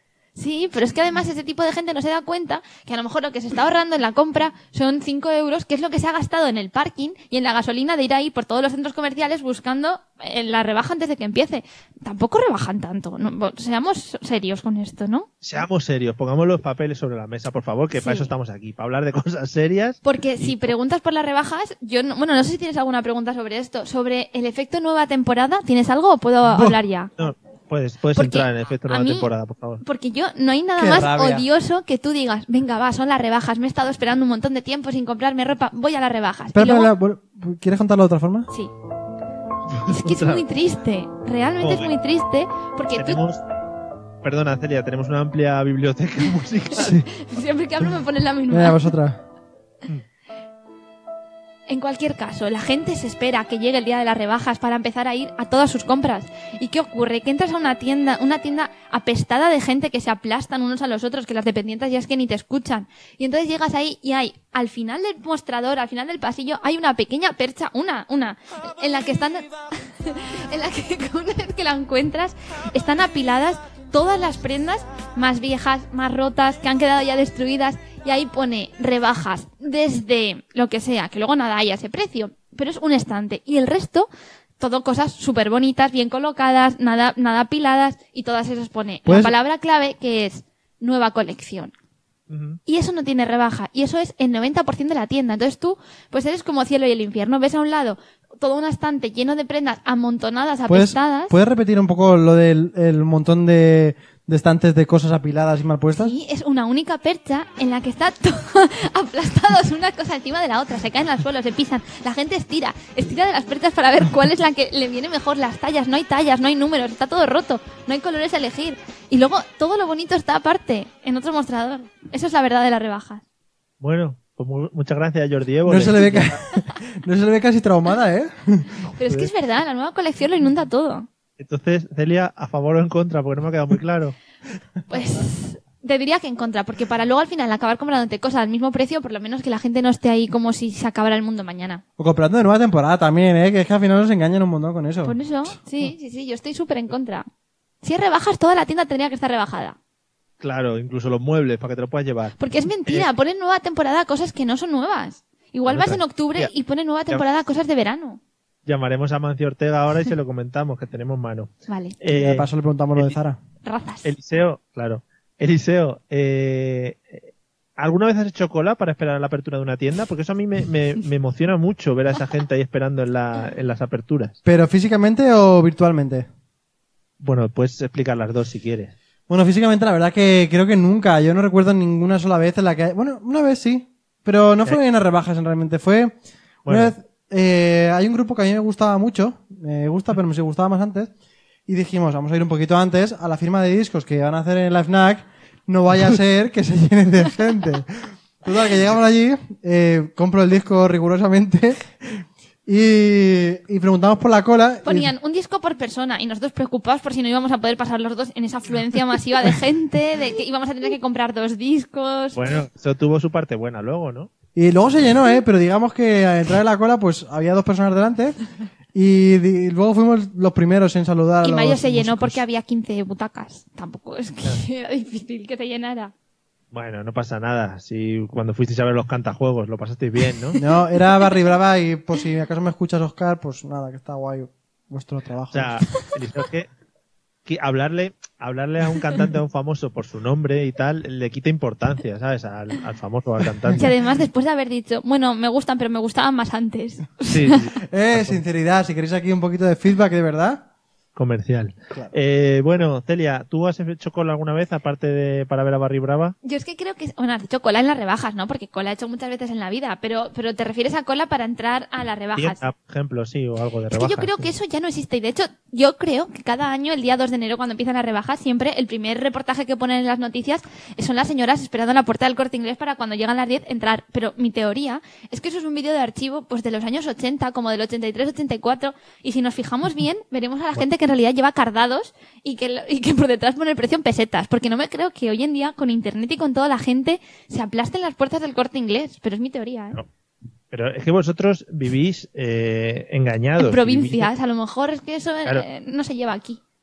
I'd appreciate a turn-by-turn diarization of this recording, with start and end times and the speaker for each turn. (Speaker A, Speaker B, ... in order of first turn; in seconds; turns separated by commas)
Speaker A: 0.4-15.4, Speaker B: 15.4-20.7, Speaker A: 18.0-18.3, Speaker A: 20.0-27.1, Speaker B: 27.2-29.8, Speaker A: 28.2-29.3, Speaker A: 29.8-36.9, Speaker C: 30.8-31.5, Speaker C: 36.5-38.5, Speaker B: 39.7-40.4, Speaker A: 39.9-43.2, Speaker B: 41.6-41.9, Speaker B: 43.0-43.4, Speaker B: 44.2-47.0, Speaker C: 46.8-47.1, Speaker A: 46.9-48.9, Speaker C: 48.5-49.2, Speaker A: 51.7-84.1, Speaker A: 84.6-91.7, Speaker C: 89.1-89.3, Speaker B: 92.3-92.6, Speaker A: 92.7-101.3, Speaker C: 100.7-106.1, Speaker A: 106.0-123.2, Speaker B: 123.8-126.4, Speaker C: 125.7-128.8, Speaker A: 128.9-131.1, Speaker B: 131.4-134.2, Speaker A: 134.9-141.8, Speaker C: 142.0-145.2, Speaker A: 145.1-147.3, Speaker A: 147.8-149.8, Speaker B: 150.4-153.1, Speaker A: 152.4-158.2, Speaker B: 155.7-156.5, Speaker B: 158.7-163.2, Speaker A: 161.7-162.0, Speaker C: 162.1-163.4, Speaker A: 163.7-164.1, Speaker B: 164.0-174.4, Speaker C: 174.4-176.3, Speaker B: 177.2-178.9, Speaker C: 179.3-186.2, Speaker B: 186.7-186.9, Speaker C: 186.7-191.1, Speaker C: 191.7-205.1, Speaker A: 204.8-212.6, Speaker B: 212.3-214.3, Speaker C: 214.6-218.4, Speaker C: 218.9-222.4, Speaker A: 221.4-226.1, Speaker B: 226.7-230.6, Speaker C: 230.6-235.8, Speaker B: 235.5-236.7, Speaker B: 237.5-243.9, Speaker A: 243.8-247.6, Speaker B: 247.3-248.4, Speaker C: 247.8-250.6, Speaker B: 251.2-256.4, Speaker A: 256.4-262.6, Speaker B: 262.4-264.5, Speaker A: 263.9-290.0, Speaker B: 290.7-294.3, Speaker A: 293.6-296.6